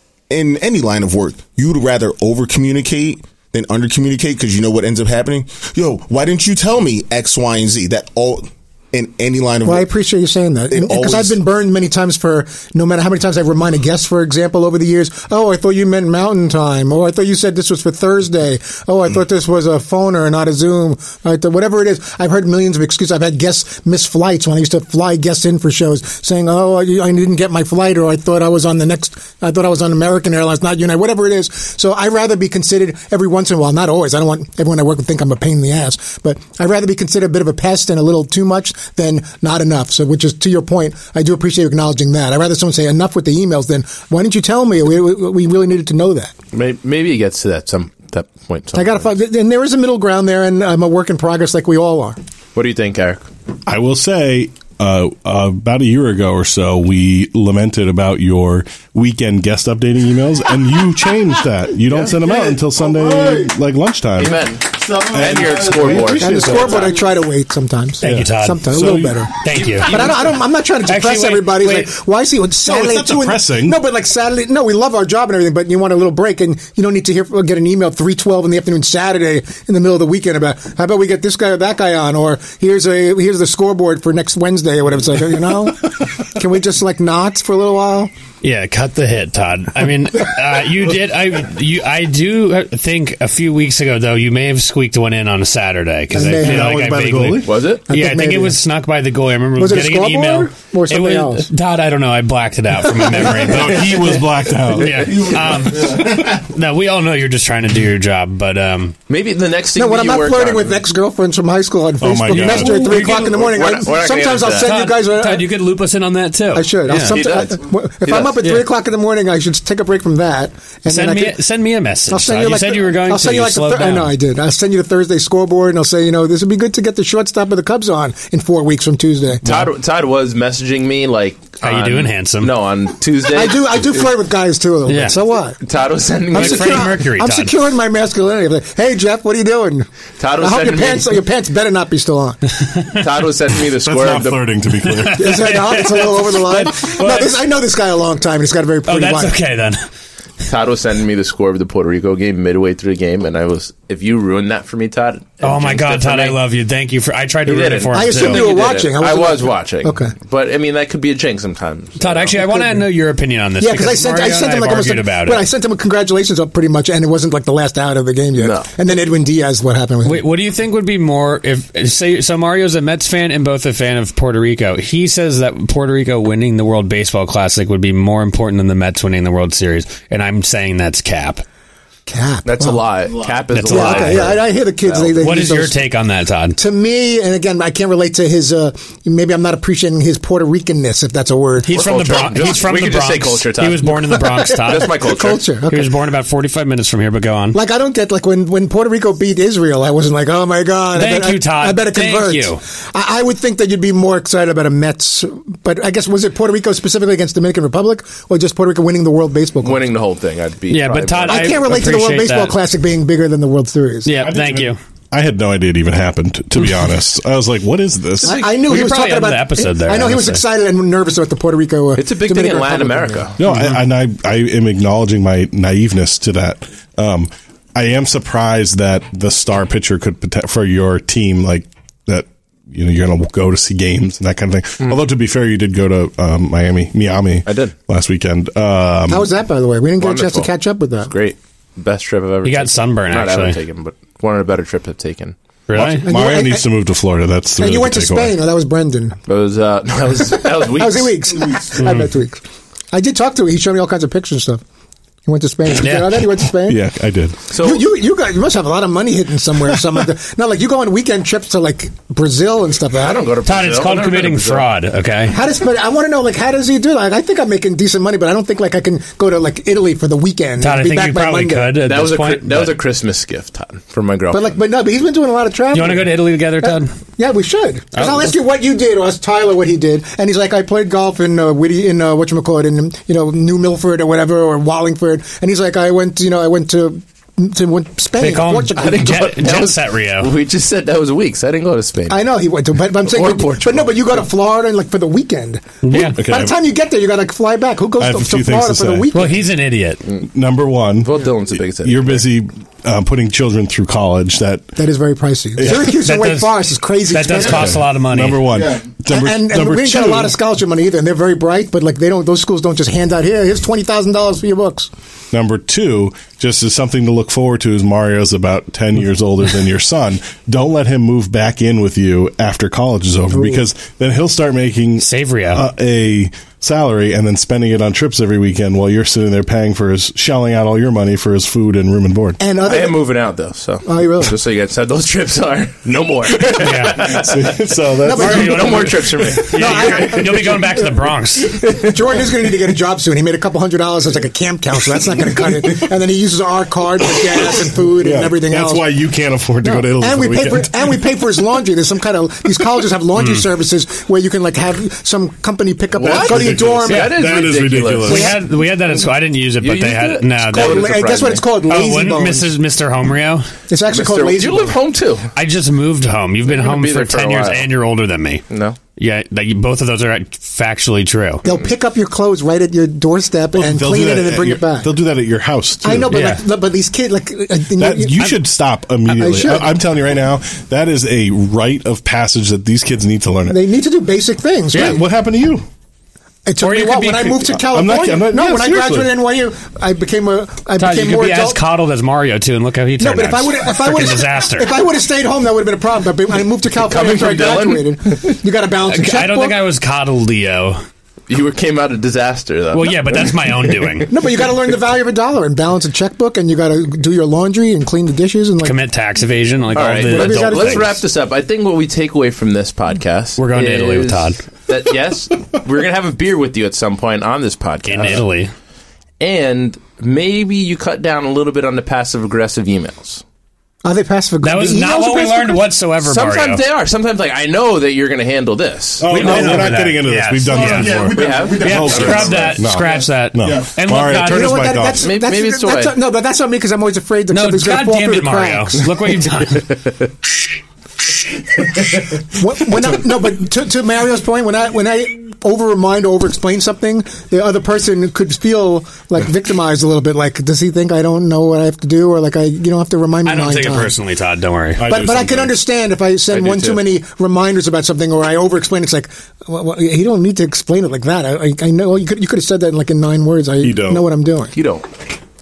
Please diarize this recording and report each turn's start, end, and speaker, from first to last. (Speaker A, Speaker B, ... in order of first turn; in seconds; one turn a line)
Speaker A: 0.3-9.9
Speaker B: 9.6-46.3
Speaker A: 10.7-11.4
Speaker C: 46.5-49.1
Speaker B: 48.7-52.2
Speaker C: 52.5-53.3
Speaker D: 53.7-64.5
Speaker C: 64.2-66.9
Speaker D: 65.0-66.4
Speaker B: 66.0-69.3
Speaker E: 68.0-70.0
Speaker D: 68.0-69.2
Speaker C: 69.5-70.4
Speaker B: 69.8-88.1
Speaker E: 70.8-71.9
Speaker D: 72.7-73.8
Speaker E: 88.4-104.2
Speaker B: 96.1-96.8
Speaker D: 96.4-97.5
Speaker C: 97.5-97.8
Speaker B: 97.9-98.6
Speaker B: 99.6-101.5
Speaker D: 103.3-105.4
Speaker E: 104.7-109.0
Speaker C: 109.1-110.8
Speaker B: 109.8-115.5
Speaker D: 112.0-112.9
Speaker E: 112.3-113.2
Speaker C: 113.0-114.8
Speaker E: 114.6-117.2
Speaker B: 116.5-121.4
Speaker C: 117.1-118.4
Speaker E: 120.9-124.1
Speaker B: 122.1-129.7
Speaker C: 129.4-134.1
Speaker E: 131.6-132.5
Speaker B: 133.3-135.6
Speaker E: 134.9-135.2
Speaker C: 135.6-136.9
Speaker B: 136.3-139.9
Speaker E: 136.3-137.6
Speaker C: 140.2-141.1
Speaker B: 140.4-142.4
Speaker C: 143.0-144.4
Speaker D: 143.8-145.2
Speaker E: 144.9-147.4
Speaker B: 145.2-149.4
Speaker E: 148.8-149.8
Speaker C: 150.4-156.4
Speaker E: 155.4-158.4
Speaker C: 157.5-162.4
Speaker B: 157.9-160.1
Speaker E: 162.0-165.4
Speaker B: 162.4-162.9
Speaker B: 163.6-170.3
Speaker C: 168.4-168.7
Speaker E: 170.0-181.4
Speaker B: 182.1-182.8
Speaker C: 182.4-185.2
Speaker E: 183.5-184.3
Speaker B: 183.7-185.8
Speaker E: 185.2-186.6
Speaker B: 186.6-191.8
Speaker E: 191.6-194.9
Speaker C: 191.7-193.9
Speaker B: 193.8-195.9
Speaker C: 194.6-195.4
Speaker E: 195.6-197.6
Speaker B: 197.5-209.8
Speaker E: 200.9-202.6
Speaker C: 209.6-211.7
Speaker E: 210.7-212.6
Speaker B: 211.3-214.1
Speaker E: 214.1-214.8
Speaker D: 214.2-218.4
Speaker E: 218.2-220.4
Speaker B: 218.2-223.3
Speaker C: 222.0-223.4
Speaker D: 223.4-239.3
Speaker C: 237.5-237.8
Speaker B: 239.1-241.1
Speaker C: 240.0-240.5
Speaker C: 241.1-245.3
Speaker E: 242.4-243.6
Speaker E: 245.7-246.1
Speaker D: 245.8-248.3
Speaker B: 246.0-246.7
Speaker B: 247.6-249.2
Speaker C: 249.3-251.7
Speaker B: 250.4-252.4
Speaker E: 251.8-252.1
Speaker B: 252.9-254.6
Speaker B: 255.3-256.9
Speaker D: 256.7-257.4
Speaker C: 257.5-257.8
Speaker B: 257.6-263.3
Speaker C: 263.0-264.7
Speaker E: 263.4-265.4
Speaker B: 265.3-271.8
Speaker E: 270.6-272.8
Speaker C: 271.9-274.6
Speaker B: 274.3-289.0
Speaker E: 275.7-276.9
Speaker E: 288.2-290.3
Speaker C: 288.8-292.3
Speaker B: 292.1-299.4
Speaker C: 293.0-294.3
Speaker E: 295.8-296.2
Speaker D: 296.2-296.6
Speaker D: 298.0-299.1
Speaker E: 299.1-300.0
Speaker D: 300.2-301.2
Speaker C: 301.0-302.3
Speaker D: 301.8-304.8
Speaker B: 304.8-307.7
Speaker D: 305.6-305.9
Speaker E: 305.7-308.5
Speaker D: 307.5-310.3
Speaker B: 309.1-314.9
Speaker D: 315.3-332.4
Speaker B: 323.3-323.6
Speaker E: 325.0-325.6
Speaker B: 332.4-333.1
Speaker C: 332.7-337.5
Speaker B: 333.9-334.4
Speaker E: 336.6-337.0
Speaker D: 337.0-339.1
Speaker B: 338.0-339.0
Speaker C: 338.1-342.2
Speaker E: 338.1-341.6
Speaker B: 339.5-340.9
Speaker B: 341.8-349.0
Speaker D: 348.0-350.8
Speaker B: 349.6-357.1
Speaker C: 355.9-358.3
Speaker D: 356.1-358.4
Speaker E: 356.9-357.1
Speaker E: 358.1-360.9
Speaker B: 358.1-358.4
Speaker C: 359.6-361.5
Speaker B: 360.5-362.5
Speaker E: 361.7-363.5
Speaker B: 363.7-364.8
Speaker C: 363.9-365.3
Speaker E: 365.4-368.4
Speaker C: 366.5-367.7
Speaker C: 368.5-368.8
Speaker E: 369.0-371.4
Speaker B: 371.4-374.9
Speaker D: 373.6-376.1
Speaker B: 375.8-378.5
Speaker E: 376.1-376.4
Speaker D: 377.8-383.6
Speaker B: 379.1-379.7
Speaker B: 383.5-385.0
Speaker D: 384.7-385.6
Speaker B: 386.5-391.6
Speaker E: 386.6-387.6
Speaker D: 387.7-389.1
Speaker E: 390.8-394.7
Speaker B: 393.0-399.6
Speaker C: 396.9-398.4
Speaker E: 398.9-400.8
Speaker C: 401.3-403.7
Speaker E: 402.7-404.1
Speaker B: 404.1-408.8
Speaker E: 408.6-411.0
Speaker C: 409.7-418.2
Speaker B: 410.0-411.0
Speaker E: 413.4-414.4
Speaker E: 417.8-418.5
Speaker C: 419.2-423.2
Speaker B: 423.8-425.7
Speaker E: 424.4-426.6
Speaker C: 426.0-429.7
Speaker D: 429.0-435.1
Speaker E: 429.1-434.7
Speaker C: 431.1-432.6
Speaker B: 434.3-438.9
Speaker C: 435.0-435.9
Speaker E: 437.3-439.7
Speaker B: 442.3-453.9
Speaker E: 453.2-454.8
Speaker D: 454.8-455.5
Speaker B: 454.8-464.5
Speaker C: 456.3-456.9
Speaker D: 463.6-464.0
Speaker C: 464.5-464.9